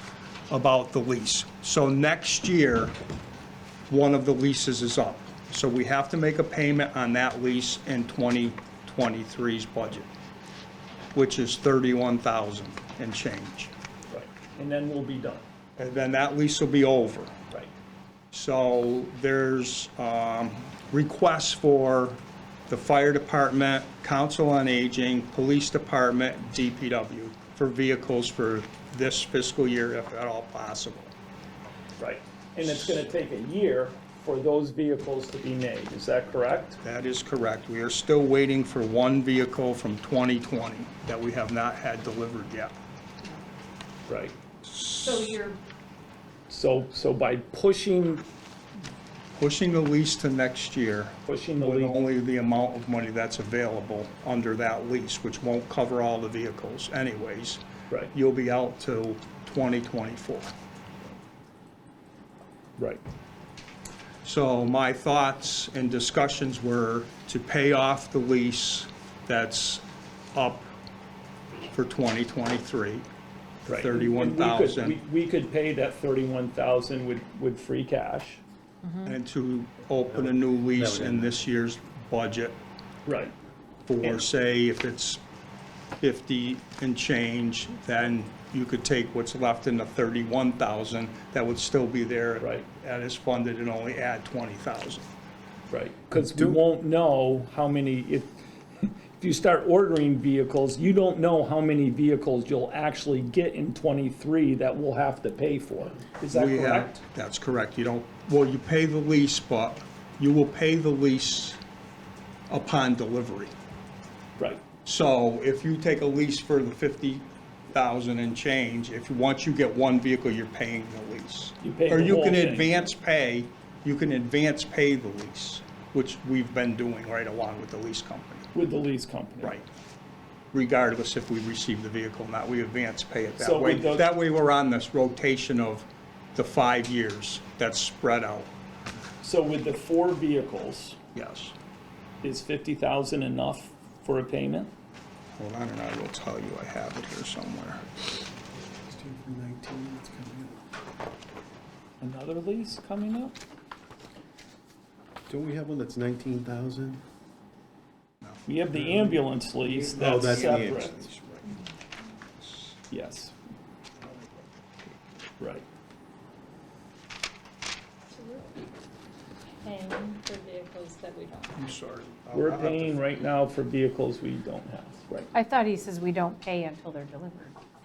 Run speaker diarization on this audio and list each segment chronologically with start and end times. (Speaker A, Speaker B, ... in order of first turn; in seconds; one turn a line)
Speaker A: 0.5-3.0
Speaker A: 3.9-10.1
Speaker A: 11.1-13.7
Speaker B: 14.1-15.4
Speaker A: 15.8-17.4
Speaker A: 18.3-31.1
Speaker B: 32.0-36.8
Speaker A: 36.8-42.7
Speaker B: 44.1-44.4
Speaker A: 44.6-45.4
Speaker C: 45.0-45.6
Speaker B: 46.5-48.2
Speaker A: 49.4-60.5
Speaker B: 51.2-52.0
Speaker A: 64.2-70.7
Speaker A: 71.7-73.0
Speaker B: 73.7-78.4
Speaker A: 73.7-75.0
Speaker C: 78.8-79.1
Speaker A: 79.0-82.6
Speaker B: 83.0-83.3
Speaker A: 83.8-85.2
Speaker A: 86.0-95.1
Speaker B: 92.4-92.6
Speaker B: 95.7-106.9
Speaker D: 96.2-96.6
Speaker A: 106.3-111.6
Speaker A: 112.5-113.5
Speaker B: 114.4-114.6
Speaker A: 114.8-128.5
Speaker B: 121.6-122.8
Speaker B: 128.5-129.5
Speaker A: 129.4-129.7
Speaker A: 130.5-138.5
Speaker B: 133.4-134.1
Speaker B: 139.2-141.0
Speaker A: 141.1-141.5
Speaker B: 142.2-144.7
Speaker A: 145.3-147.8
Speaker D: 148.9-150.6
Speaker B: 152.0-153.4
Speaker D: 155.3-157.0
Speaker B: 158.4-161.1
Speaker D: 158.8-161.6
Speaker A: 162.4-162.7
Speaker B: 162.9-163.3
Speaker D: 164.0-164.4
Speaker B: 165.4-165.6
Speaker E: 168.1-168.5
Speaker E: 169.6-171.5
Speaker A: 171.5-173.1
Speaker B: 172.3-175.3
Speaker C: 175.3-177.6